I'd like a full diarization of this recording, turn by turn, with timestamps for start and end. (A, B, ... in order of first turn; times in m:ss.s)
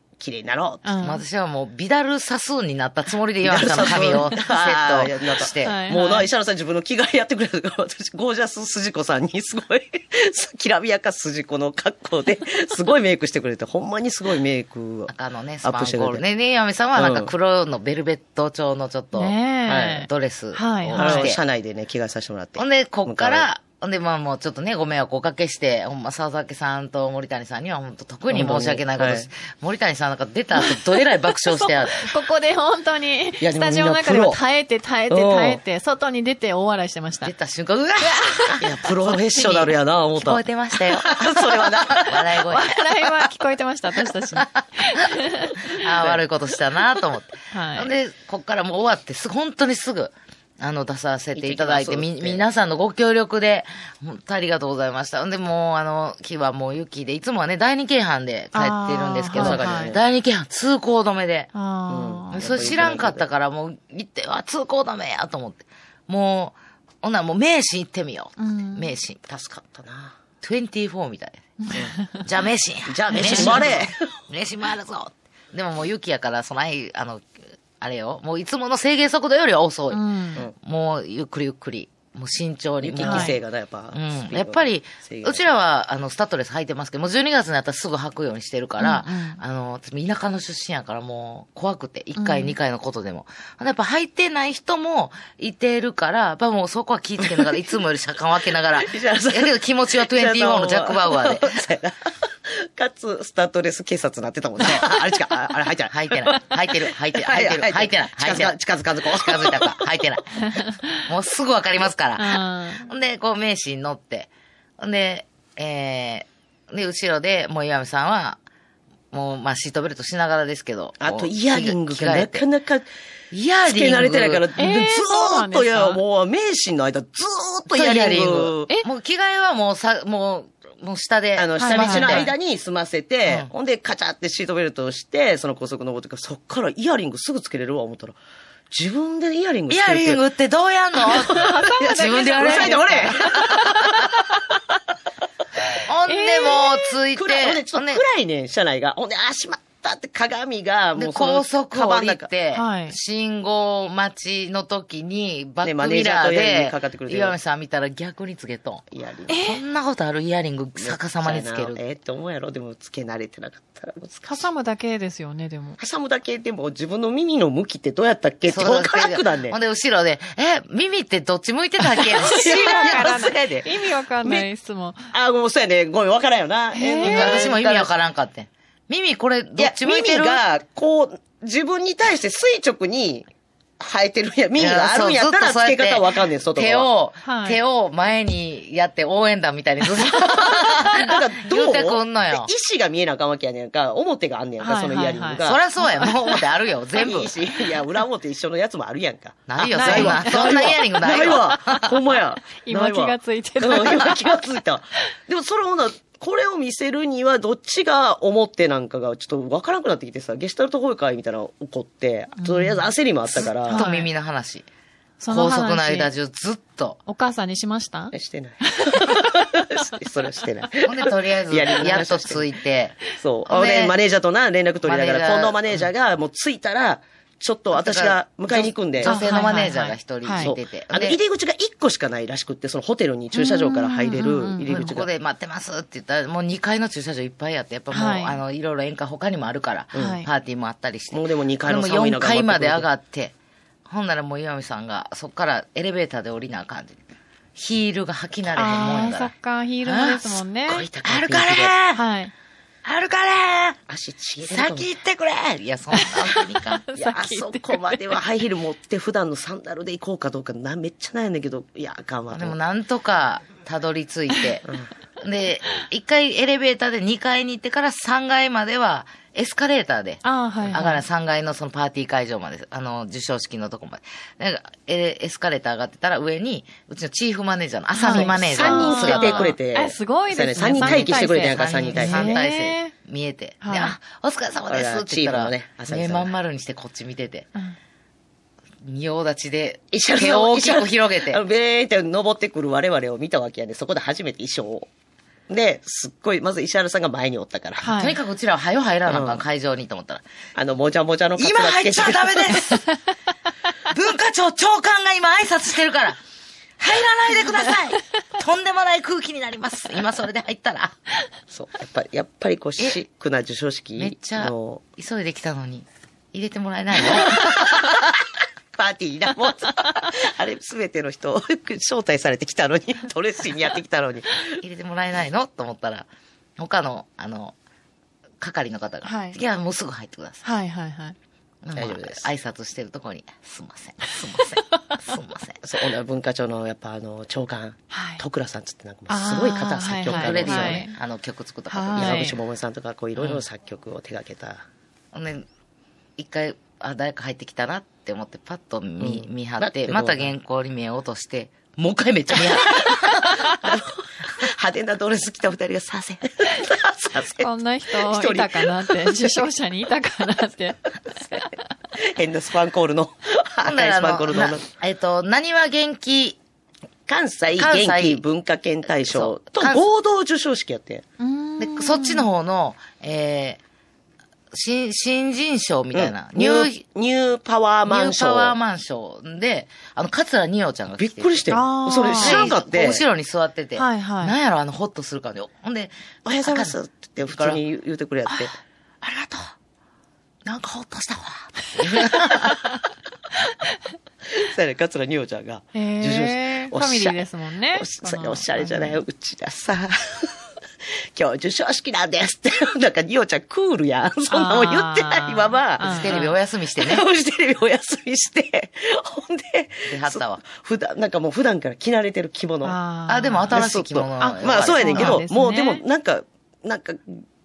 0:00.2-0:00.9 A
0:00.8-0:01.2 B
0:01.0-0:05.8 C
0:03.4-0:15.1 A
0:05.6-0:06.3 B
0:15.1-0:21.4 C
0:15.6-0:16.2 A
0:17.0-0:17.3 A
0:19.1-0:21.3 B
0:19.7-0:20.0 A
0:20.9-0:23.5 A
0:22.6-0:32.1 C
0:28.3-0:29.3 A
0:31.6-0:37.3 B
0:33.4-0:34.4 A
0:35.1-0:35.6 A
0:37.2-0:42.8 C
0:38.2-0:38.5 B
0:38.6-0:42.3 A
0:42.4-0:45.7 B
0:45.7-1:01.5 C
0:45.8-0:46.2 A
0:47.5-0:47.9 B
0:51.4-0:52.4 A
0:58.5-1:00.0 B
0:59.3-1:00.0 A
1:01.5-1:02.4 B
1:01.9-1:03.3 A
1:02.3-1:09.3 C
1:08.4-1:08.9 B
1:09.3-1:10.2 A
1:10.4-1:11.4 C
1:11.6-1:12.2 B
1:12.2-1:17.3 C
1:12.9-1:14.1 A
1:17.8-1:20.0 C
1:19.9-1:20.4 B
1:20.6-1:23.4 C
1:22.8-1:25.4 A
1:23.0-1:23.4 B
1:23.9-1:41.6 C
1:28.8-1:29.4 B
1:32.2-1:32.6 B
1:37.2-1:37.6 A
1:38.8-1:49.8 A
1:45.9-1:48.6 C
1:49.1-1:58.4 C
1:52.2-1:52.9 B
1:59.1-2:02.5 C
2:01.0-2:02.9 A
2:03.3-2:04.5 C
2:03.6-2:08.7 A
2:04.6-2:06.0 B
2:07.7-2:12.3 C
2:11.4-2:18.2 A
2:11.6-2:12.3 B
2:18.7-2:20.2 A
2:19.7-2:23.7 C
2:21.0-2:24.1 A
2:21.1-2:24.0 B
2:25.9-2:28.0 C
2:26.1-2:26.9 B
2:27.2-2:32.3 A
2:31.0-2:41.8 C
2:32.6-2:33.0 B
2:35.6-2:37.4 A
2:38.9-2:39.3 A
2:39.3-2:39.6 B
2:40.8-2:44.5 A
2:44.3-2:45.8 B
2:45.8-2:49.6 A
2:48.5-2:53.2 C
2:51.9-2:54.5 A
2:52.1-2:55.1 B
2:55.1-2:57.9 A
2:56.7-2:57.5 B
2:57.0-3:00.4 C
2:59.6-3:03.3 A
3:03.8-3:06.9 A
3:04.6-3:12.5 C
3:07.2-3:07.6 B
3:10.1-3:15.6 A
3:14.6-3:16.2 B
3:15.4-3:17.3 C
3:17.0-3:33.8 A
3:19.5-3:21.9 C
3:19.7-3:20.8 B
3:22.1-3:24.4 B
3:32.4-3:32.9 B
3:33.7-3:34.1 B
3:33.7-3:34.7 C
3:35.2-3:36.1 B
3:35.3-3:37.0 C
3:37.1-3:38.1 B
3:38.1-3:42.5 A
3:38.6-3:39.3 B
3:40.8-3:44.0 C
3:43.2-3:49.3 A
3:44.8-3:45.9 C
3:47.7-3:51.2 C
3:49.0-3:50.5 B
3:50.4-3:55.1 A
3:53.3-3:54.7 B
3:54.7-4:03.3 C
3:57.9-3:58.4 B
3:59.9-4:00.2 A
4:00.0-4:00.3 B
4:01.1-4:02.9 A
4:03.9-4:07.0 C
4:07.6-4:09.3 C
4:08.6-4:10.9 B
4:09.8-4:12.0 C
4:11.0-4:11.7 A
4:11.9-4:12.3 B
4:12.8-4:13.8 C
4:13.9-4:14.9 A
4:14.5-4:16.8 C
4:15.9-4:18.2 B
4:16.9-4:22.6 A
4:22.3-4:24.7 C
4:25.2-4:39.6 C
4:30.2-4:31.0 B
4:38.0-4:42.9 B
4:38.1-4:42.4 A
4:40.8-4:47.5 C
4:43.6-4:44.0 B
4:44.7-4:46.3 A
4:48.8-4:51.4 C
4:49.9-4:54.9 A
4:55.5-4:57.9 A
4:57.8-4:58.2 B
4:58.0-5:00.2 C
4:59.1-4:59.4 A
5:00.6-5:02.6 A
5:01.4-5:02.9 C
5:03.9-5:06.2 C
5:06.8-5:11.0 C
5:11.5-5:14.8 A
5:14.0-5:18.1 C
5:17.4-5:17.9 A
5:18.8-5:24.6 A
5:24.6-5:26.1 C
5:26.6-5:27.6 C
5:28.4-5:30.4 C
5:29.0-5:29.4 B
5:30.4-5:31.2 B
5:31.6-5:35.6 C
5:31.8-5:32.3 A
5:35.6-5:40.8 A
5:37.9-5:38.2 B
5:39.1-5:41.0 B
5:40.1-5:42.3 C
5:41.7-5:42.4 B
5:42.0-5:44.6 A
5:43.2-5:43.4 C
5:45.1-5:45.5 C
5:46.2-5:53.5 C
5:49.0-5:50.3 A
5:52.8-5:59.5 A
5:57.4-6:00.9 B
6:01.1-6:04.7 A
6:03.6-6:06.4 C
6:07.1-6:11.0 A
6:07.6-6:08.2 C
6:09.0-6:09.8 C
6:11.2-6:12.3 B
6:11.6-6:13.6 C
6:14.5-6:16.8 C
6:15.9-6:18.6 A
6:17.9-6:21.5 C
6:21.0-6:23.0 A
6:21.5-6:22.5 B
6:22.1-6:27.6 C
6:23.8-6:24.4 B
6:26.2-6:28.5 A
6:29.0-6:29.6 C
6:30.4-6:32.7 C
6:34.3-6:40.4 A
6:35.7-6:39.0 B
6:41.2-6:52.8 A
6:44.3-6:46.3 B
6:45.8-6:47.0 C
6:49.9-6:50.4 C
6:52.6-6:53.6 B
6:53.1-6:55.2 C
6:53.5-6:57.2 A
6:54.2-6:55.8 B